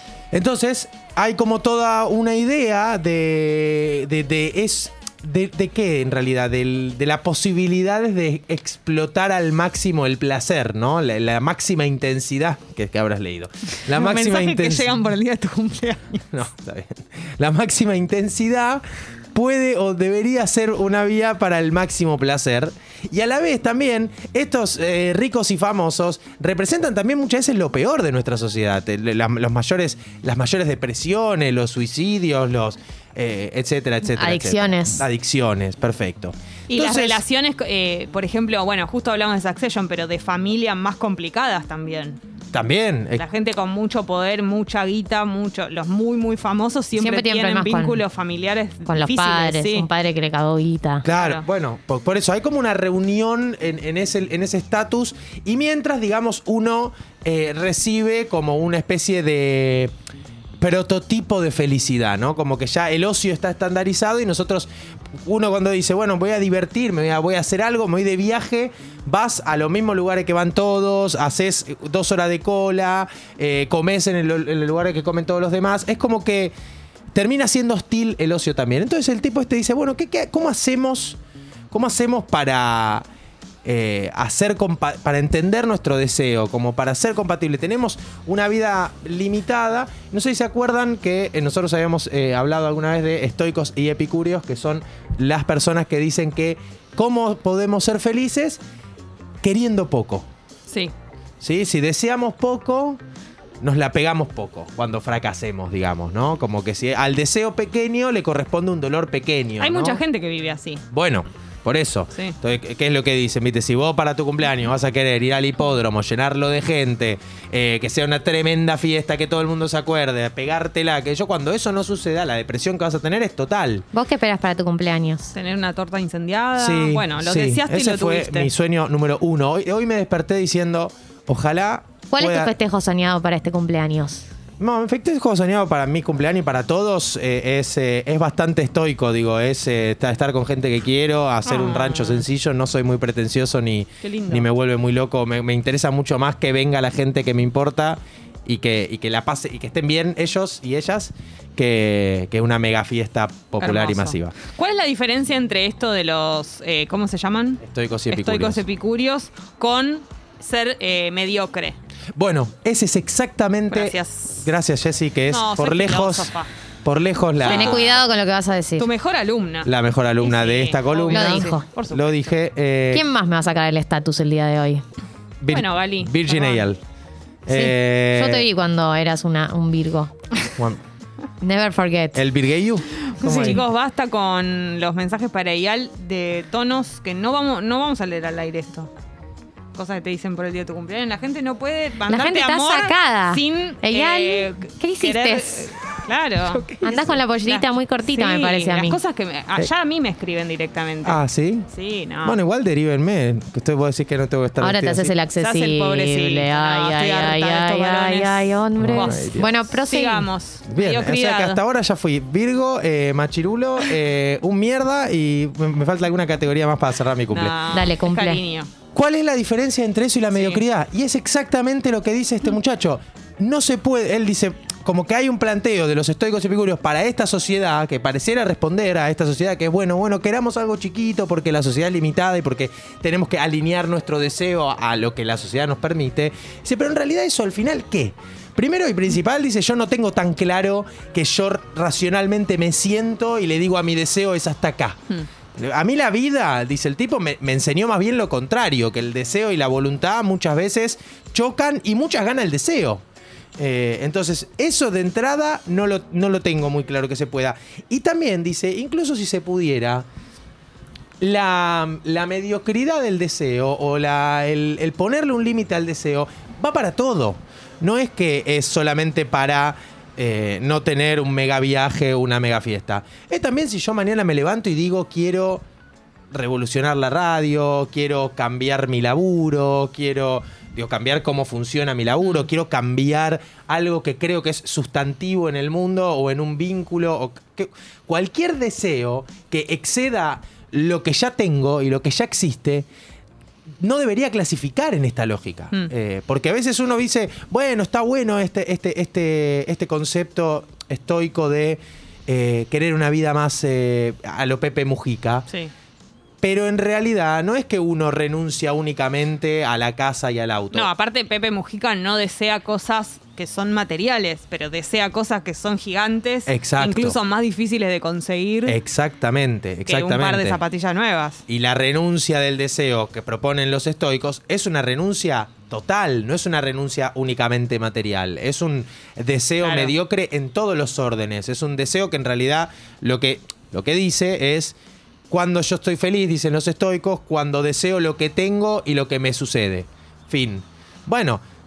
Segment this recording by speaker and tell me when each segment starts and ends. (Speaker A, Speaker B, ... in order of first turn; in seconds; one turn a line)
Speaker A: 0.3-15.0
Speaker B: 13.9-16.2
Speaker A: 16.3-37.2
Speaker C: 34.1-35.0
Speaker B: 36.7-42.2
Speaker A: 42.5-43.2
Speaker B: 43.2-49.9
Speaker C: 47.0-48.0
Speaker C: 48.9-51.1
Speaker A: 51.0-59.9
Speaker B: 51.1-51.4
Speaker A: 60.6-64.7
Speaker A: 65.2-76.5
Speaker A: 77.1-81.2
Speaker A: 81.7-83.0
Speaker A: 83.7-98.6
Speaker A: 99.4-100.3
Speaker B: 100.7-100.9
Speaker A: 101.4-103.0
Speaker A: 103.6-110.0
Speaker B: 109.6-110.8
Speaker A: 110.9-123.9
Speaker C: 123.9-125.3
Speaker B: 125.3-128.5
Speaker A: 126.6-132.5
Speaker C: 132.1-134.3
Speaker A: 134.6-154.4
Speaker B: 141.4-142.2
Speaker B: 144.0-144.5
Speaker B: 153.6-161.8
Speaker A: 157.6-158.6
Speaker A: 162.2-166.3
Speaker B: 163.7-164.5
Speaker B: 165.3-166.5
Speaker A: 166.8-168.0
Speaker B: 167.4-167.9
Speaker C: 167.4-168.9
Speaker B: 168.8-172.3
Speaker A: 169.7-173.1
Speaker C: 171.1-171.6
Speaker C: 172.9-174.8
Speaker A: 175.4-176.8
Speaker B: 175.5-176.7
Speaker A: 177.5-178.5
Speaker C: 177.5-180.1
Speaker C: 181.4-182.2
Speaker A: 182.2-183.6
Speaker B: 183.0-188.9
Speaker B: 189.8-196.7
Speaker C: 192.1-195.7
Speaker A: 196.5-197.1
Speaker C: 196.8-199.0
Speaker B: 197.4-201.2
Speaker A: 201.1-201.7
Speaker B: 201.7-202.4
Speaker A: 202.2-205.1
Speaker C: 204.6-210.3
Speaker B: 205.4-211.6
Speaker A: 208.8-209.5
Speaker A: 210.7-217.6
Speaker B: 217.3-218.7
Speaker C: 217.7-218.4
Speaker A: 218.9-245.0
Speaker B: 220.3-220.6
Speaker A: 245.6-253.0
Speaker A: 253.6-260.1
Speaker A: 261.2-275.6
Speaker A: 276.3-292.9
Speaker B: 282.2-282.5
Speaker A: 293.8-305.5
Speaker A: 306.4-310.9
Speaker B: 310.7-318.8
Speaker A: 316.5-317.2
Speaker A: 318.7-320.6
Speaker B: 319.9-321.4
Speaker A: 321.5-334.8
Speaker B: 329.6-329.9
Speaker A: 335.3-341.4